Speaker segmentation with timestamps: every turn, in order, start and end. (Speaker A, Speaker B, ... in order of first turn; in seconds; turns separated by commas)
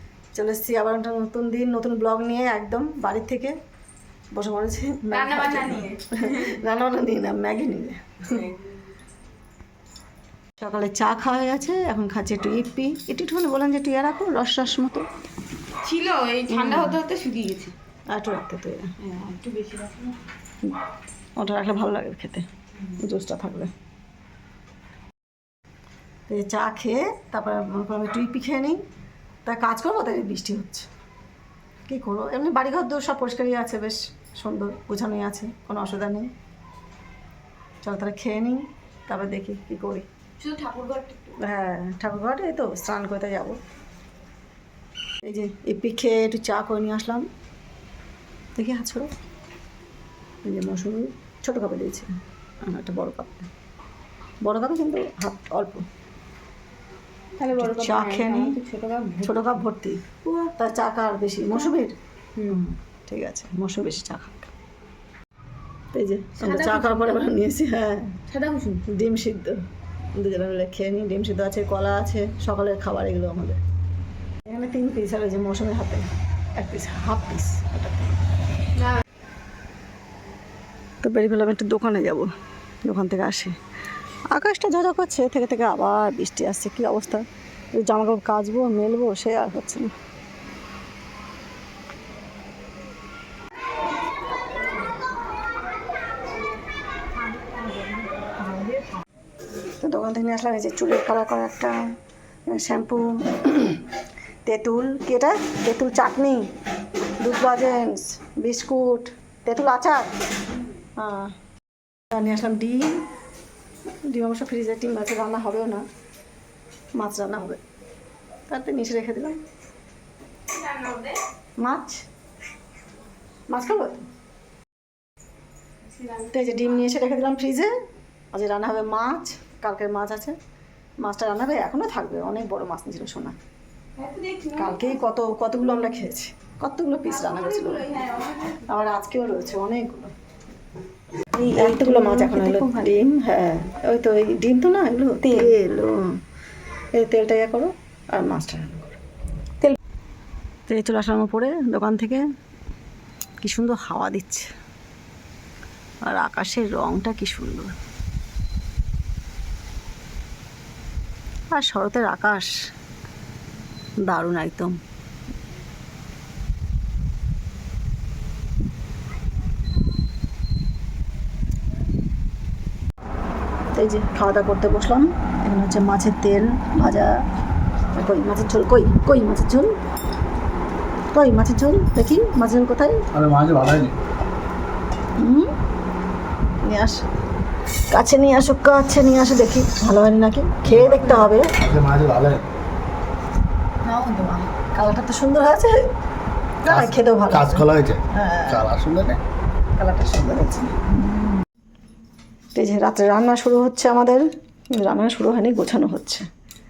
Speaker A: 0.3-3.5, Speaker A: 4.3-8.6, Speaker B: 5.1-6.0, Speaker A: 10.6-15.1, Speaker B: 15.8-17.8, Speaker A: 16.5-17.0, Speaker A: 18.1-18.9, Speaker B: 19.0-20.2, Speaker A: 21.4-23.7, Speaker A: 26.3-28.8, Speaker A: 29.4-30.9, Speaker A: 31.9-36.3, Speaker A: 37.8-40.1, Speaker B: 40.4-41.4, Speaker A: 41.4-43.6, Speaker A: 45.2-47.2, Speaker A: 48.6-49.1, Speaker A: 50.4-52.1, Speaker A: 52.6-53.5, Speaker A: 54.5-55.8, Speaker B: 57.4-59.4, Speaker A: 57.6-58.6, Speaker A: 59.2-64.5, Speaker B: 62.4-62.6, Speaker A: 65.9-68.2, Speaker B: 66.4-67.3, Speaker B: 68.3-68.8, Speaker A: 68.9-69.6, Speaker A: 70.2-73.6, Speaker A: 74.5-78.2, Speaker A: 81.0-82.3, Speaker A: 82.8-83.5, Speaker A: 84.3-89.9, Speaker B: 97.1-99.0, Speaker A: 99.8-101.8, Speaker A: 102.5-103.8, Speaker A: 104.5-106.4, Speaker A: 107.2-110.1, Speaker A: 111.0-111.3, Speaker A: 112.1-113.0, Speaker A: 114.1-115.8, Speaker A: 117.0-117.6, Speaker A: 118.5-119.4, Speaker B: 120.7-121.1, Speaker A: 121.6-122.0, Speaker A: 123.5-124.1, Speaker A: 126.1-127.7, Speaker A: 128.3-130.4, Speaker A: 131.0-133.4, Speaker B: 134.0-134.9, Speaker A: 134.5-140.1, Speaker B: 137.3-138.6, Speaker B: 141.3-143.0, Speaker A: 141.5-146.0, Speaker B: 145.2-145.5, Speaker A: 147.0-149.0, Speaker A: 150.7-152.2, Speaker A: 153.4-154.5, Speaker A: 156.1-157.7, Speaker A: 161.5-162.5, Speaker A: 164.1-164.8, Speaker A: 173.7-177.2, Speaker A: 177.9-179.7, Speaker A: 181.1-183.1, Speaker C: 183.1-184.0, Speaker A: 185.2-185.5, Speaker A: 186.6-187.0, Speaker A: 187.9-191.6, Speaker C: 190.7-192.4, Speaker A: 193.9-195.8, Speaker A: 196.6-198.8, Speaker C: 196.7-199.2, Speaker A: 199.8-200.7, Speaker A: 202.6-206.3